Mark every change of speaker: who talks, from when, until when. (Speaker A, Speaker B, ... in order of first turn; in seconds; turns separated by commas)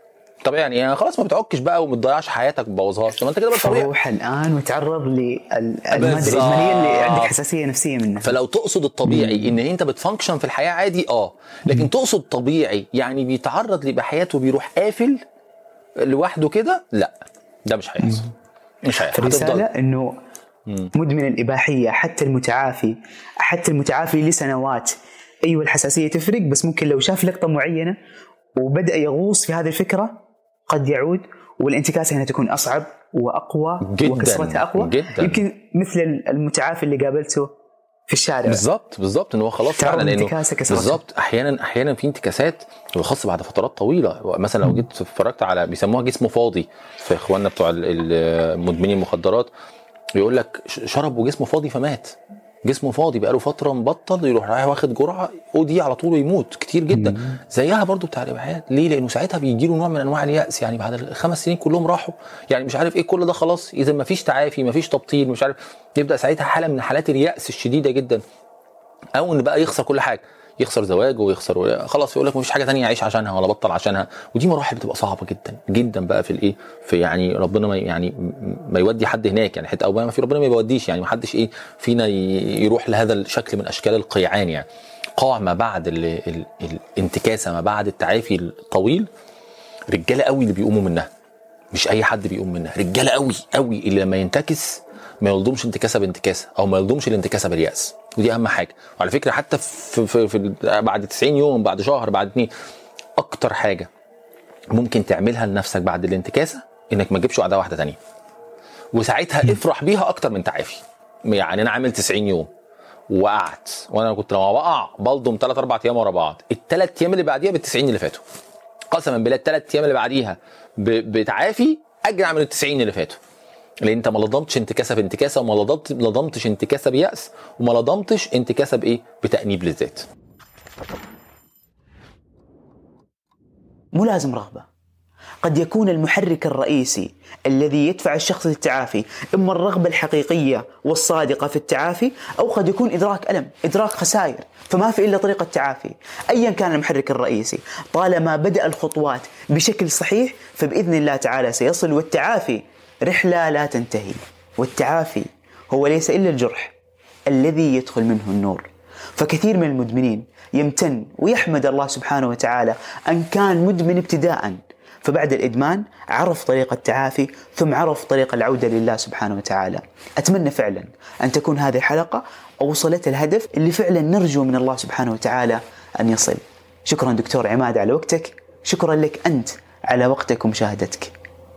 Speaker A: 0.4-3.9, Speaker B: 3.5-8.3, Speaker A: 5.9-7.3, Speaker A: 8.2-15.2, Speaker B: 9.1-9.5, Speaker A: 16.0-17.1, Speaker A: 17.7-18.3, Speaker A: 18.8-19.6, Speaker B: 19.1-20.2, Speaker B: 20.9-28.0, Speaker B: 28.6-37.5, Speaker A: 33.8-35.4, Speaker B: 38.1-38.6, Speaker A: 38.5-49.5, Speaker B: 39.8-41.0, Speaker A: 50.2-68.2, Speaker A: 69.2-84.7, Speaker A: 85.2-89.1, Speaker A: 89.9-91.1, Speaker A: 91.7-102.5, Speaker A: 103.2-103.9, Speaker A: 104.7-108.0, Speaker A: 108.9-112.5, Speaker A: 113.1-118.2, Speaker A: 118.9-123.2, Speaker A: 123.8-130.1, Speaker B: 133.9-134.7, Speaker B: 135.4-156.7, Speaker B: 157.3-181.1